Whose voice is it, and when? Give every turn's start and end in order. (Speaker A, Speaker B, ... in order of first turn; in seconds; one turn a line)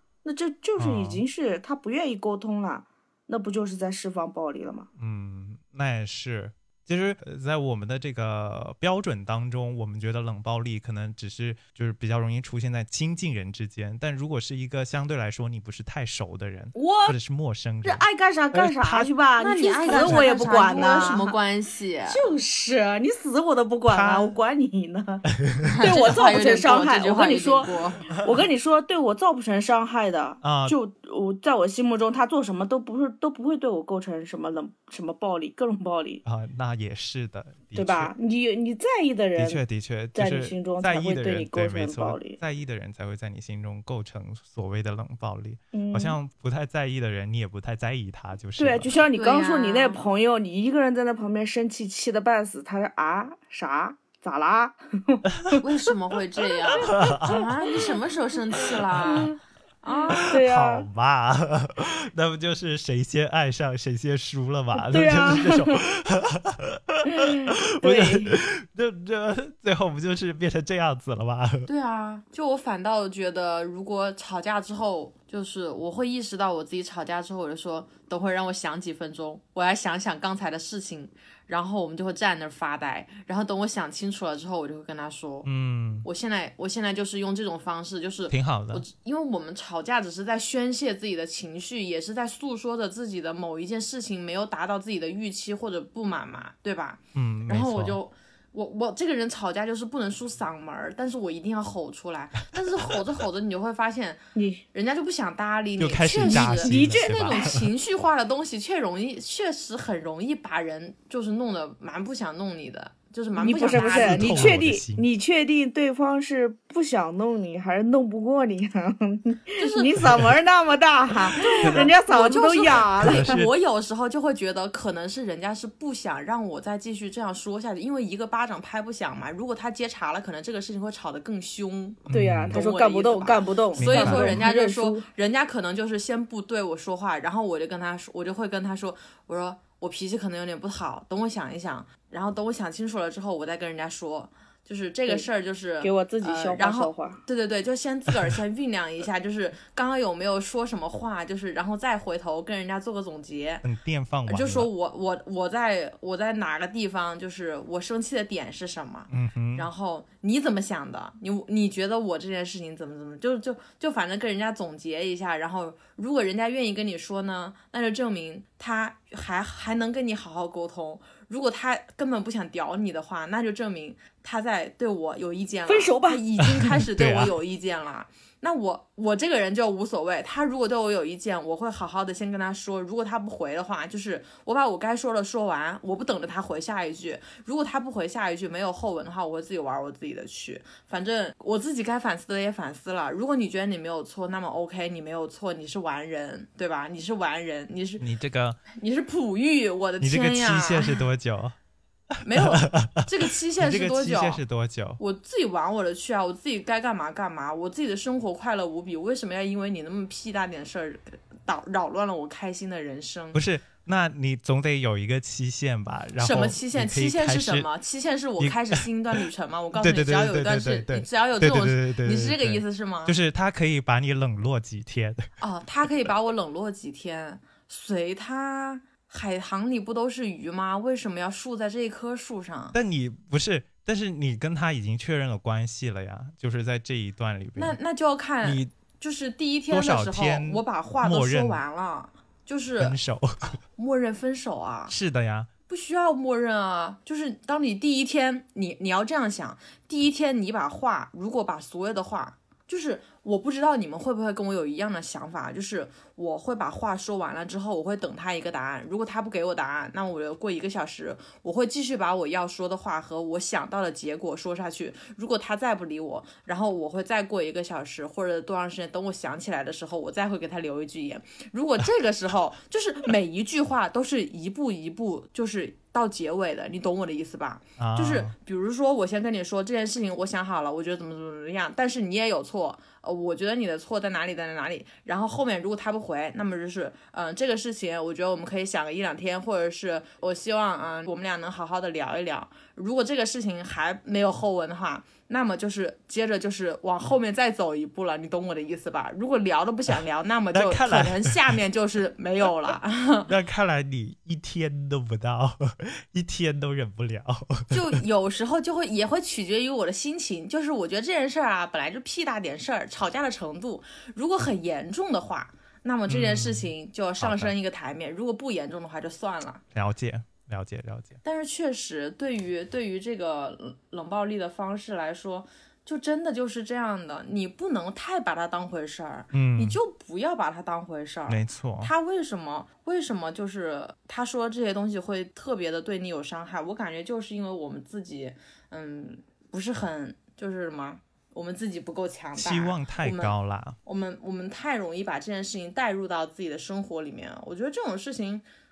Speaker A: 0.2-4.9
Speaker B: 0.8-1.2
Speaker B: 5.0-19.1
Speaker A: 16.7-17.1
Speaker A: 17.8-21.4
Speaker C: 19.4-22.2
Speaker B: 19.9-20.9
Speaker A: 22.1-25.3
Speaker B: 23.9-24.4
Speaker B: 25.4-26.0
Speaker C: 25.6-28.1
Speaker A: 25.8-36.2
Speaker B: 30.4-30.8
Speaker B: 36.2-38.1
Speaker A: 37.7-39.6
Speaker B: 39.4-49.0
Speaker A: 40.1-42.4
Speaker A: 45.7-46.2
Speaker A: 48.6-55.6
Speaker C: 49.1-50.0
Speaker C: 55.6-60.3
Speaker B: 56.9-57.5
Speaker A: 57.0-57.3
Speaker B: 59.0-59.3
Speaker A: 60.2-60.9
Speaker B: 60.2-71.7
Speaker A: 64.8-65.8
Speaker A: 67.1-68.4
Speaker C: 71.7-85.5
Speaker B: 85.4-86.1
Speaker C: 86.0-104.2
Speaker B: 88.3-88.8
Speaker B: 97.1-98.0
Speaker A: 104.3-104.6
Speaker C: 104.7-114.6
Speaker B: 105.8-107.6
Speaker A: 106.2-107.5
Speaker A: 113.3-123.4
Speaker B: 113.7-115.1
Speaker C: 119.6-120.0
Speaker C: 121.3-153.6
Speaker B: 121.6-121.9
Speaker B: 123.0-123.5
Speaker B: 132.1-132.6
Speaker A: 132.1-135.1
Speaker B: 133.8-134.4
Speaker A: 145.8-147.2
Speaker B: 153.6-154.7
Speaker C: 154.3-198.1
Speaker B: 159.1-159.7
Speaker A: 175.7-176.2
Speaker B: 176.6-177.3
Speaker B: 198.0-198.6
Speaker C: 198.7-201.0
Speaker B: 200.0-201.6
Speaker C: 202.2-204.4
Speaker B: 202.3-205.0
Speaker C: 205.0-213.4
Speaker B: 213.3-217.7
Speaker C: 216.2-223.2
Speaker B: 218.4-218.8
Speaker B: 219.7-225.3
Speaker C: 225.4-232.8
Speaker B: 232.7-237.8
Speaker C: 237.6-243.0
Speaker B: 238.4-238.7
Speaker B: 239.7-241.6
Speaker B: 242.8-243.6
Speaker C: 243.8-244.9
Speaker B: 244.9-245.5
Speaker C: 245.7-303.3
Speaker B: 277.8-278.3
Speaker B: 300.5-301.5
Speaker B: 303.3-307.9
Speaker C: 307.7-319.6
Speaker B: 316.1-317.5
Speaker B: 319.7-321.2
Speaker C: 321.2-348.4
Speaker B: 329.3-329.8
Speaker B: 331.3-331.9
Speaker B: 342.3-343.8